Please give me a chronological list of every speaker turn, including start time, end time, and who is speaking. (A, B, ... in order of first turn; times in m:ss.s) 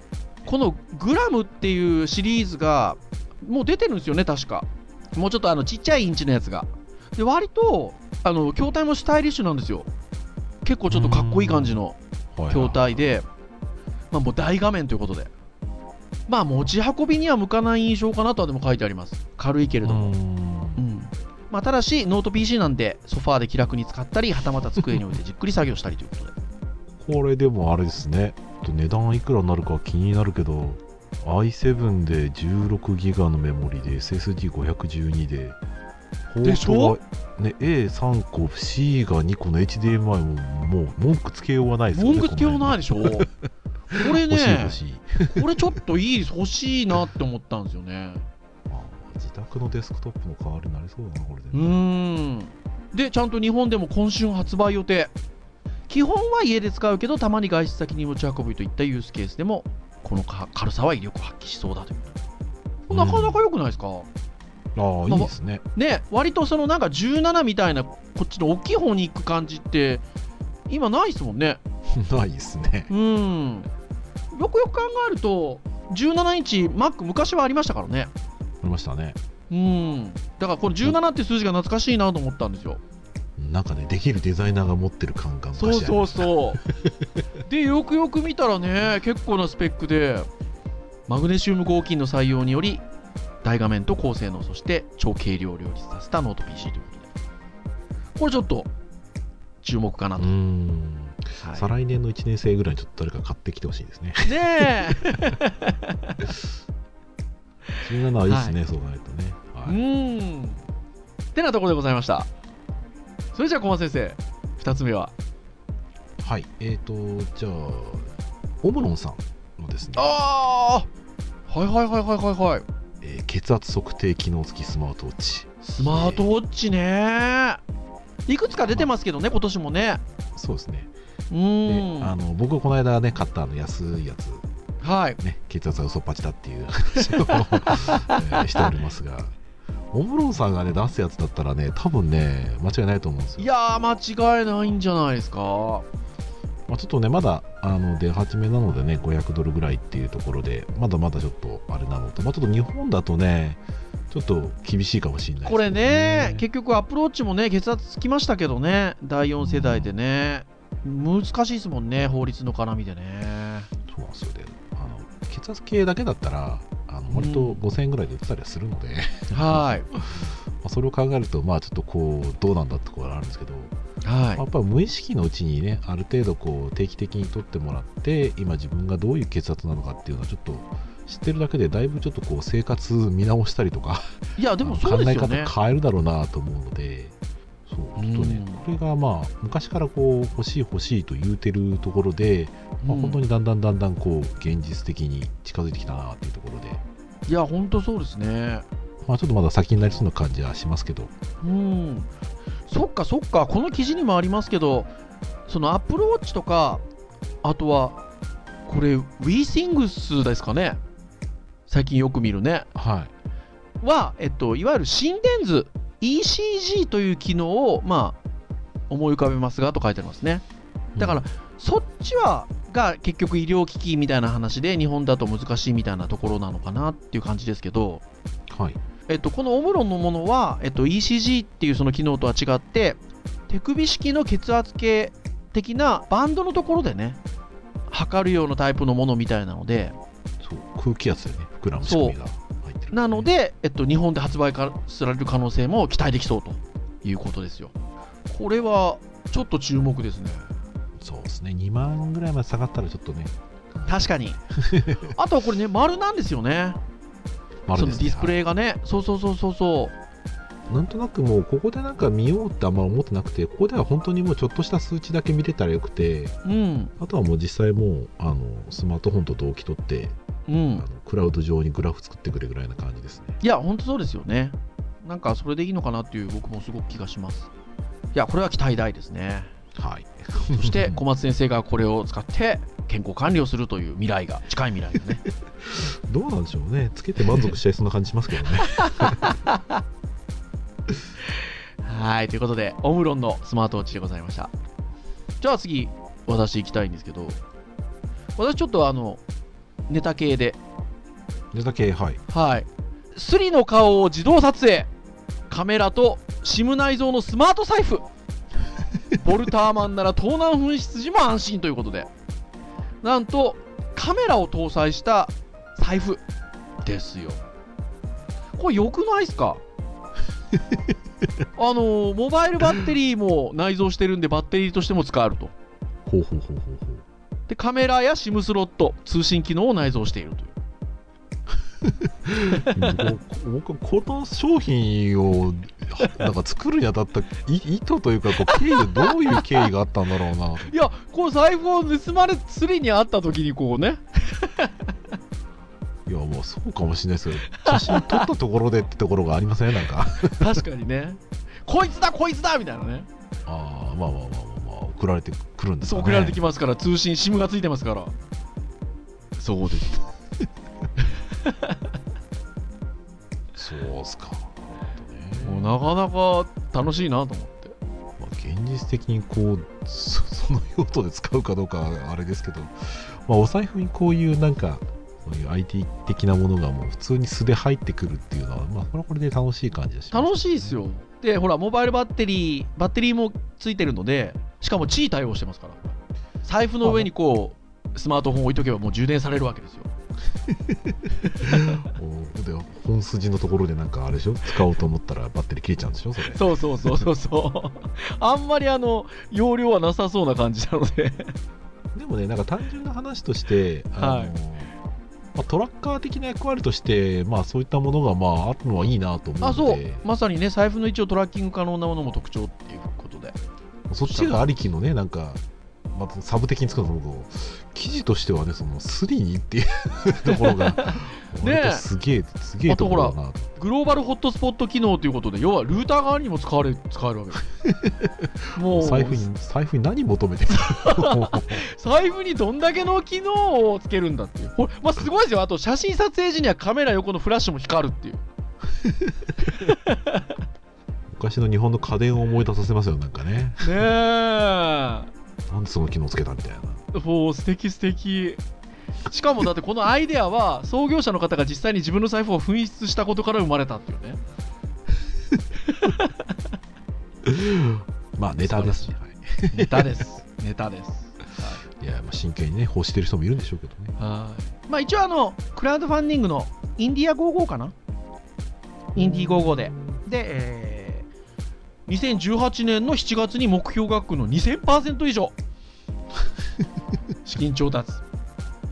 0:00.4-0:09.9 A
0:10.6-0:12.0 A
0:10.9-0:11.8 B
0:12.3-0:13.1 B
0:12.5-0:13.2 A
0:14.1-0:15.3 A
0:16.3-0:20.2 A
0:19.8-0:20.8 B
0:20.8-0:26.3 A
0:26.9-0:35.6 B
0:36.3-0:43.3 B
0:36.4-0:37.0 A
0:41.9-0:43.3 A
0:43.9-0:45.6 B
0:43.9-0:44.8 A
0:45.3-0:48.2 A
0:48.7-0:51.6 B
0:51.5-0:55.1 A
0:55.9-1:02.1 A
1:02.9-1:04.1 A
1:02.9-1:03.4 B
1:04.8-1:05.6 B
1:05.1-1:10.0 A
1:10.7-1:11.6 A
1:11.9-1:12.9 B
1:12.9-1:13.7 A
1:14.3-1:18.1 A
1:18.6-1:19.2 B
1:19.5-1:22.8 A
1:20.7-1:21.0 B
1:23.4-1:27.0 B
1:25.6-1:26.6 A
1:27.5-1:30.3 A
1:31.1-1:32.8 A
1:33.4-1:37.1 A
1:38.2-1:38.7 A
1:39.6-1:40.3 A
1:40.2-1:45.2 B
1:41.4-1:41.7 A
1:44.2-1:46.2 A
1:47.8-1:49.8 B
1:48.3-1:48.6 A
1:49.7-1:50.6 A
1:51.4-1:52.3 A
1:53.4-1:55.1 A
1:56.2-2:00.0 B
2:00.0-2:00.9 A
2:01.5-2:02.6 A
2:03.0-2:06.3 B
2:05.6-2:07.6 A
2:08.3-2:10.0 A
2:10.4-2:10.9 B
2:11.3-2:12.1 A
2:11.7-2:14.4 B
2:14.8-2:15.2 A
2:15.2-2:19.4 B
2:17.1-2:18.7 A
2:19.9-2:23.5 B
2:23.4-2:25.9 A
2:26.7-2:36.5 B
2:35.4-2:43.7 A
2:39.4-2:39.9 B
2:43.9-2:53.7 B
2:47.1-2:47.6 A
2:49.3-2:49.9 A
2:54.0-2:54.4 A
2:54.4-3:07.2 B
3:04.4-3:05.5 A
3:07.7-3:16.8 B
3:08.0-3:08.6 A
3:12.8-3:13.2 A
3:17.3-3:18.7 A
3:19.0-3:21.1 B
3:21.4-3:22.1 A
3:22.7-3:24.9 A
3:25.5-3:26.8 A
3:27.4-3:28.0 A
3:28.7-3:30.8 A
3:31.7-3:32.7 A
3:32.8-3:33.1 B
3:33.8-3:38.2 A
3:38.9-3:40.4 A
3:41.0-3:41.2 B
3:41.0-3:48.0 A
3:48.5-3:48.8 B
3:49.1-3:57.2 A
3:57.9-4:00.0 A
4:00.4-4:03.3 B
4:01.8-4:02.2 A
4:02.9-4:07.7 A
4:08.3-4:10.5 A
4:11.0-4:15.1 B
4:13.9-4:14.4 A
4:15.0-4:16.8 A
4:17.7-4:18.4 B
4:17.7-4:20.0 A
4:20.7-4:26.4 B
4:26.4-4:26.9 A
4:27.0-4:30.2 B
4:30.5-4:30.9 A
4:30.8-4:33.4 B
4:33.4-4:37.5 A
4:38.1-4:39.5 A
4:39.8-4:41.0 B
4:40.5-4:45.2 A
4:45.6-4:49.4 B
4:48.8-4:49.8 A
4:51.8-4:54.5 A
4:55.4-4:57.4 A
4:58.4-4:59.2 A
4:59.9-5:00.6 A
5:01.5-5:02.2 B
5:02.3-5:04.9 A
5:05.5-5:08.0 A
5:09.2-5:12.1 A
5:13.0-5:16.2 A
5:16.8-5:17.4 A
5:18.6-5:19.6 A
5:21.6-5:25.5 A
5:26.1-5:27.0 B
5:27.5-5:30.6 A
5:31.8-5:40.7 B
5:32.5-5:33.0 A
5:38.8-5:39.4 A
5:40.7-5:44.8 A
5:46.1-5:50.4 B
5:47.5-5:48.3 A
5:50.2-5:53.1 A
5:53.5-5:56.4 B
5:55.8-5:58.1 A
5:59.4-6:00.0 A
6:01.5-6:01.7 A
6:03.6-6:05.8 B
6:05.4-6:07.8 A
6:08.2-6:20.8 B
6:20.1-6:29.9 A
6:26.8-6:27.1 B
6:30.5-6:37.0 B
6:36.3-6:41.4 A
6:41.9-6:44.7 B
6:44.0-6:44.3 A
6:45.4-6:50.0 B
6:49.4-6:53.4 A
6:53.9-6:55.4 B
6:54.1-6:54.4 A
6:55.9-7:03.5 B
7:00.2-7:01.8 A
7:02.7-7:07.4 A
7:07.6-7:11.6 B
7:08.6-7:09.2 A
7:10.5-7:18.2 A
7:18.8-7:19.1 B
7:19.5-7:20.3 A
7:21.1-7:23.7 B
7:23.6-7:25.1 A
7:25.5-7:26.8 B
7:26.9-7:28.4 A
7:29.1-7:34.2 A
7:35.8-7:36.1 A
7:37.2-7:40.0 B
7:38.4-7:38.9 A
7:39.5-7:41.6 A
7:41.7-7:44.0 B
7:44.0-7:47.7 A
7:49.0-7:50.0 B
7:49.0-7:51.1 A
7:51.9-7:55.4 A
7:57.2-7:58.0 A